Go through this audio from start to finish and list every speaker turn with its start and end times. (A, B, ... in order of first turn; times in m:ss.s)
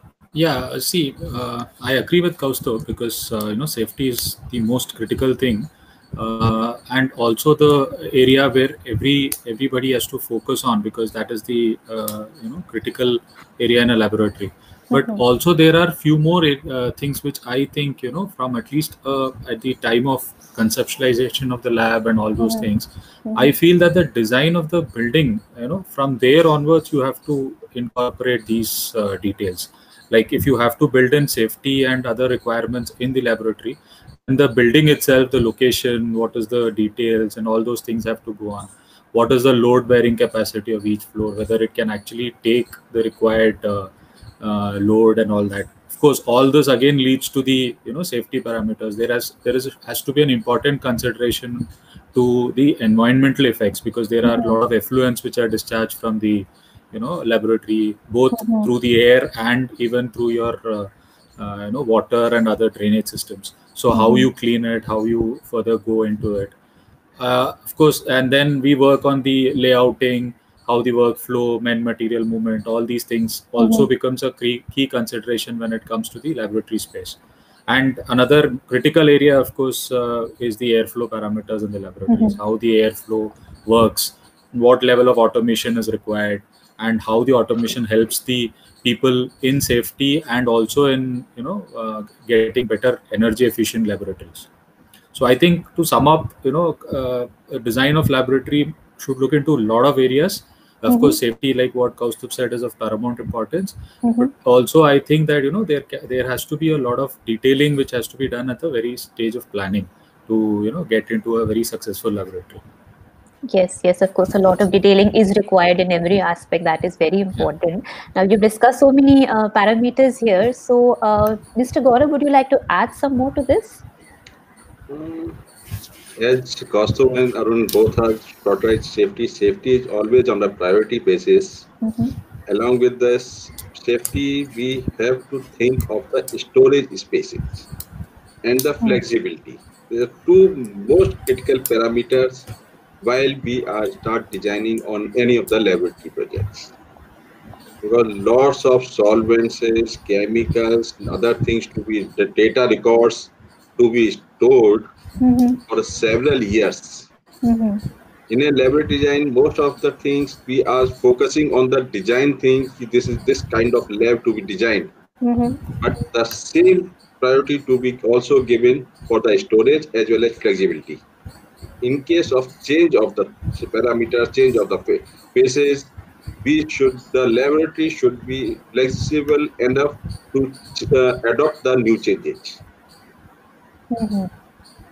0:00.3-1:06.5 A
0:14.9-0:15.2 B
0:22.4-0:22.7 B
0:23.3-0:23.5 B
0:54.3-0:54.6 B
0:58.3-0:58.7 B
1:03.9-1:04.3 B
1:07.2-1:34.5 A
1:13.6-1:13.9 B
1:22.1-1:22.4 B
1:35.1-1:52.6 A
1:40.9-1:41.2 B
1:44.0-1:44.3 B
1:53.5-2:03.8 B
2:04.9-2:05.4 C
2:06.2-2:11.7 C
2:11.8-2:12.1 B
2:12.5-2:17.7 C
2:18.4-2:22.5 C
2:23.0-2:26.7 C
2:27.8-2:34.9 C
2:35.2-2:35.6 B
2:35.7-2:37.1 C
2:37.4-2:37.8 B
2:38.3-2:44.9 C
2:45.2-2:45.6 B
2:45.8-2:51.0 C
2:51.8-2:55.9 C
2:56.4-3:02.6 C
3:03.9-3:04.3 B